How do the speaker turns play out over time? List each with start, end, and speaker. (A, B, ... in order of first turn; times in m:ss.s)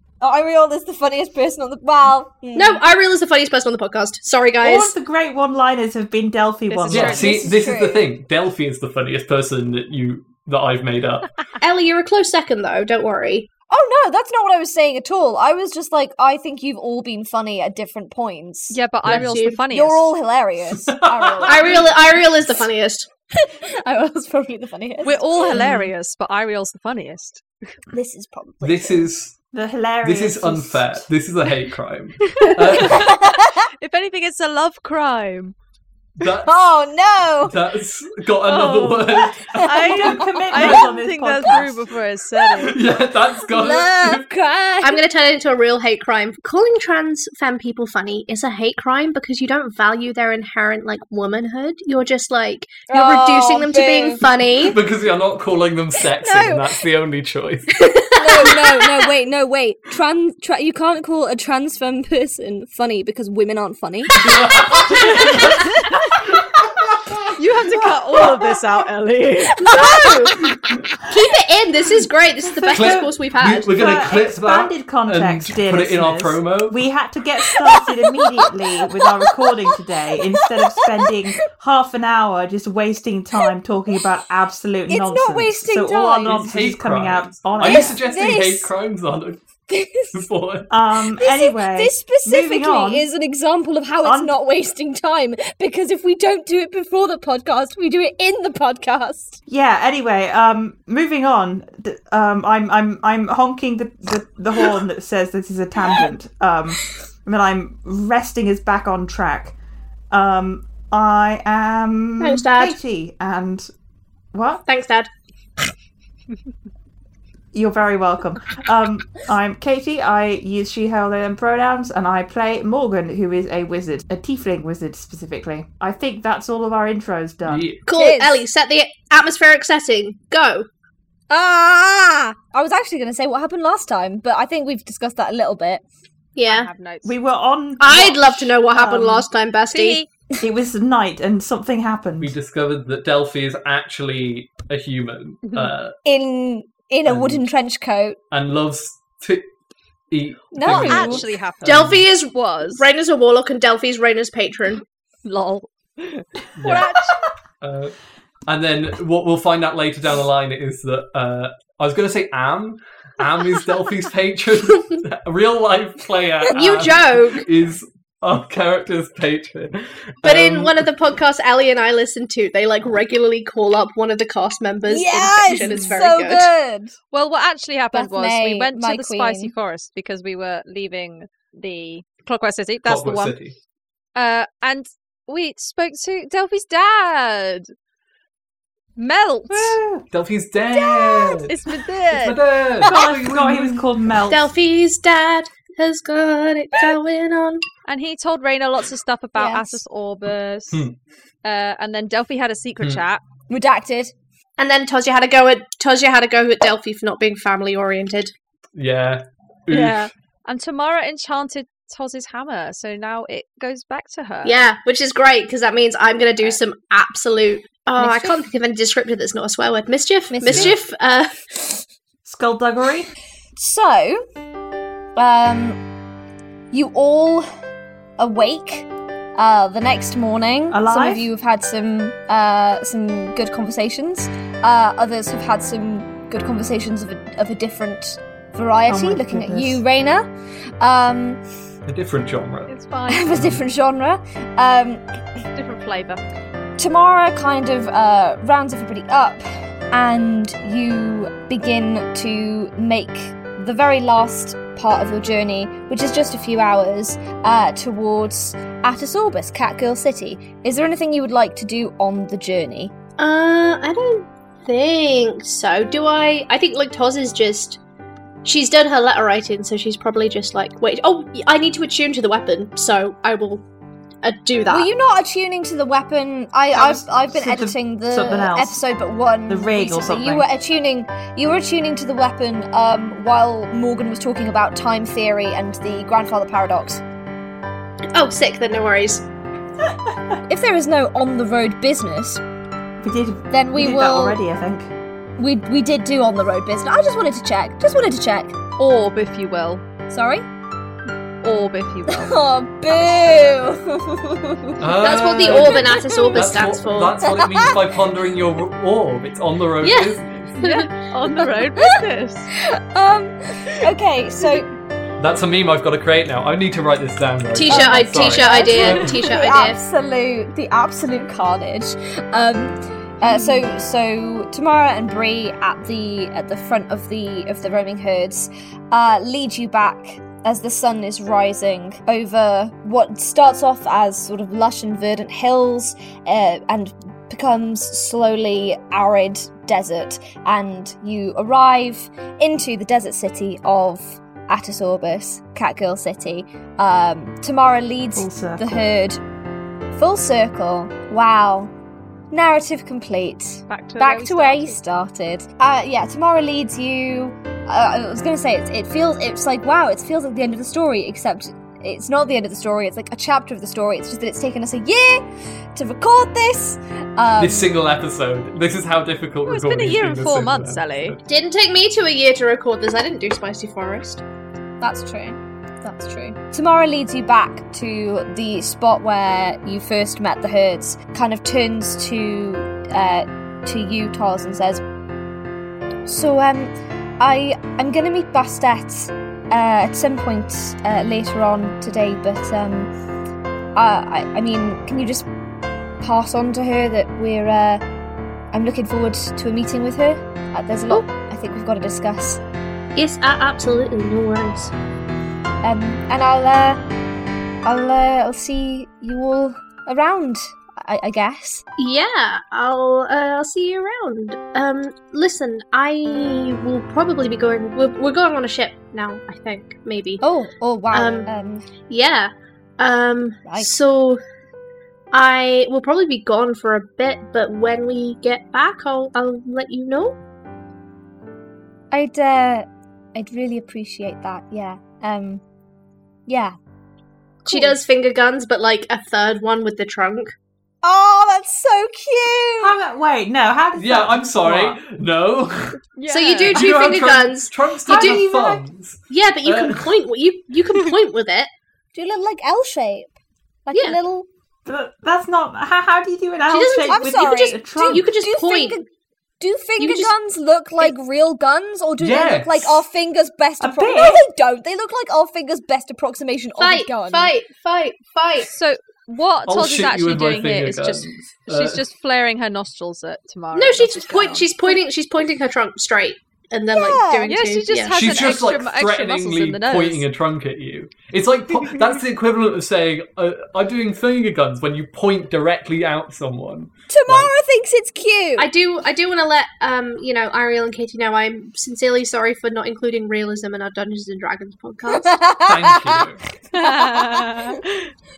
0:00.2-0:02.8 A
0:02.6-0:04.9 B
0:04.6-0:07.4 C
0:06.7-0:07.5 D
0:06.9-0:11.3 E
0:07.0-0:08.1 A
0:11.6-0:13.5 B
0:13.7-0:19.2 A
0:18.7-0:20.1 D
0:19.1-0:19.6 B
0:19.7-0:22.0 A
0:20.8-0:21.8 E
0:21.5-0:23.1 B
0:23.3-0:25.4 A
0:25.0-0:27.4 D
0:25.5-0:25.9 C
0:27.9-0:29.1 A
0:28.6-0:29.4 E
0:29.5-0:31.1 C
0:30.0-0:33.2 E
0:32.3-0:35.6 D
0:32.7-0:33.7 A
0:36.2-0:36.5 E
0:36.4-0:37.6 A
0:37.4-0:40.6 E
0:38.4-0:42.8 D
0:39.8-0:41.8 C
0:42.5-0:44.3 E
0:43.4-0:45.0 A
0:44.8-0:54.8 B
0:52.9-0:54.2 A
0:54.6-0:57.7 E
0:56.0-0:56.8 A
0:57.7-0:59.1 B
0:58.2-1:04.2 A
1:04.2-1:05.8 E
1:07.4-1:09.7 D
1:09.6-1:10.4 B
1:09.6-1:10.3 A
1:11.1-1:14.1 B
1:12.4-1:13.1 C
1:12.7-1:16.8 E
1:13.7-1:28.0 C
1:18.2-1:18.5 A
1:20.3-1:20.9 A
1:24.9-1:26.5 A
1:26.3-1:29.4 E
1:27.6-1:28.7 A
1:29.7-1:30.2 A
1:30.1-1:30.7 E
1:30.7-1:33.1 C
1:31.2-1:39.4 A
1:34.0-1:34.3 C
1:39.5-1:49.6 C
1:50.1-1:53.7 C
1:52.2-1:52.8 B
1:54.3-1:54.6 C
1:54.7-1:55.1 B
1:57.5-2:07.7 C
2:07.5-2:07.8 E
2:07.8-2:10.7 B
2:07.9-2:08.5 A
2:11.3-2:15.8 A
2:16.4-2:16.7 B
2:16.4-2:17.2 D
2:17.0-2:19.3 C
2:17.8-2:20.0 B
2:19.7-2:20.1 D
2:20.4-2:22.4 C
2:22.2-2:26.0 E
2:25.4-2:25.7 D
2:26.0-2:28.2 A
2:27.1-2:27.4 E
2:28.3-2:29.5 E
2:30.1-2:32.0 E
2:30.5-2:31.3 A
2:30.6-2:32.9 D
2:31.6-2:34.8 B
2:35.2-2:37.2 D
2:36.6-2:37.0 E
2:37.6-2:37.9 E
2:38.5-2:50.9 E
2:46.5-2:47.5 B
2:50.2-2:56.5 B
2:54.9-2:57.0 A
2:57.1-3:03.4 D
2:57.9-2:59.5 A
3:02.8-3:03.6 E
3:04.2-3:07.7 D
3:09.0-3:09.8 D
3:09.5-3:10.0 C
3:10.1-3:13.8 E
3:10.7-3:11.4 A
3:11.3-3:12.4 D
3:12.8-3:14.5 C
3:14.3-3:17.6 B
3:17.9-3:20.8 D
3:19.4-3:19.8 A
3:21.4-3:23.2 D
3:23.5-3:24.1 A
3:24.6-3:28.3 B
3:28.8-3:30.1 E
3:29.7-3:34.6 D
3:34.4-3:41.3 B
3:38.0-3:38.4 A
3:40.3-3:40.8 A
3:40.5-3:40.8 E
3:42.2-3:43.1 C
3:43.6-3:44.2 A
3:45.2-3:45.8 A
3:46.7-3:47.5 A
3:48.2-4:00.3 A
3:50.7-3:51.3 C
3:58.9-3:59.8 C
4:00.8-4:01.4 A
4:01.9-4:02.8 E
4:02.7-4:03.3 D
4:03.1-4:05.0 A
4:03.3-4:03.6 E
4:05.6-4:06.2 D
4:06.8-4:22.9 A
4:23.2-4:27.8 B
4:28.4-4:33.6 B
4:34.2-4:34.9 B
4:34.7-4:47.0 A
4:36.7-4:38.8 C
4:39.5-4:40.5 C
4:48.1-4:49.2 B
4:50.1-4:50.3 C
4:50.5-4:52.4 A
4:53.0-4:54.9 C
4:53.5-4:54.4 A
4:55.4-4:58.6 A
4:58.8-4:59.8 D
5:00.1-5:00.4 A
5:01.4-5:02.3 D
5:02.1-5:04.8 A
5:04.8-5:10.6 E
5:05.0-5:07.2 B
5:05.5-5:06.3 A
5:07.4-5:07.7 A
5:09.8-5:10.9 B
5:10.6-5:12.5 D
5:12.6-5:14.7 A
5:15.2-5:19.2 E
5:17.5-5:19.8 B
5:17.6-5:49.2 A
5:48.2-5:48.8 C
5:49.9-5:51.7 A
5:52.3-6:07.7 A
5:53.7-5:54.8 D
6:07.4-6:11.2 E
6:09.5-6:11.2 D
6:11.3-6:14.2 B
6:14.8-6:24.8 A
6:26.1-6:32.9 A
6:33.8-6:35.3 A
6:36.0-6:37.8 A
6:38.5-6:42.4 A
6:43.0-6:44.7 B
6:45.6-6:46.8 A
6:47.6-6:51.6 A
6:51.8-7:00.2 B
7:00.2-7:01.7 A
7:00.9-7:01.3 B
7:01.9-7:04.2 B
7:03.4-7:03.7 A
7:05.1-7:10.2 B
7:11.9-7:15.4 A
7:16.3-7:16.6 A
7:17.4-7:17.8 A
7:17.5-7:20.3 B
7:20.8-7:22.8 A
7:22.6-7:24.8 C
7:23.8-7:25.8 E
7:26.0-7:26.6 D
7:26.1-7:28.2 B
7:26.5-7:30.0 E
7:27.9-7:28.6 C
7:29.1-7:31.5 B
7:32.0-7:33.1 A
7:33.7-7:34.3 A
7:34.7-7:38.1 C
7:36.5-7:38.8 B
7:36.9-7:38.8 A
7:39.4-7:47.3 A
7:39.8-7:40.1 B
7:42.0-7:42.8 E
7:43.6-7:44.3 C
7:46.6-7:48.5 B
7:48.5-7:54.8 D
7:49.5-7:51.8 E
7:53.6-7:58.1 B
7:56.7-7:57.4 A
7:57.3-8:00.0 D
7:57.9-8:07.3 E
8:06.9-8:08.5 A
8:08.4-8:15.2 B
8:14.9-8:17.6 A
8:15.4-8:16.2 E
8:16.5-8:17.8 D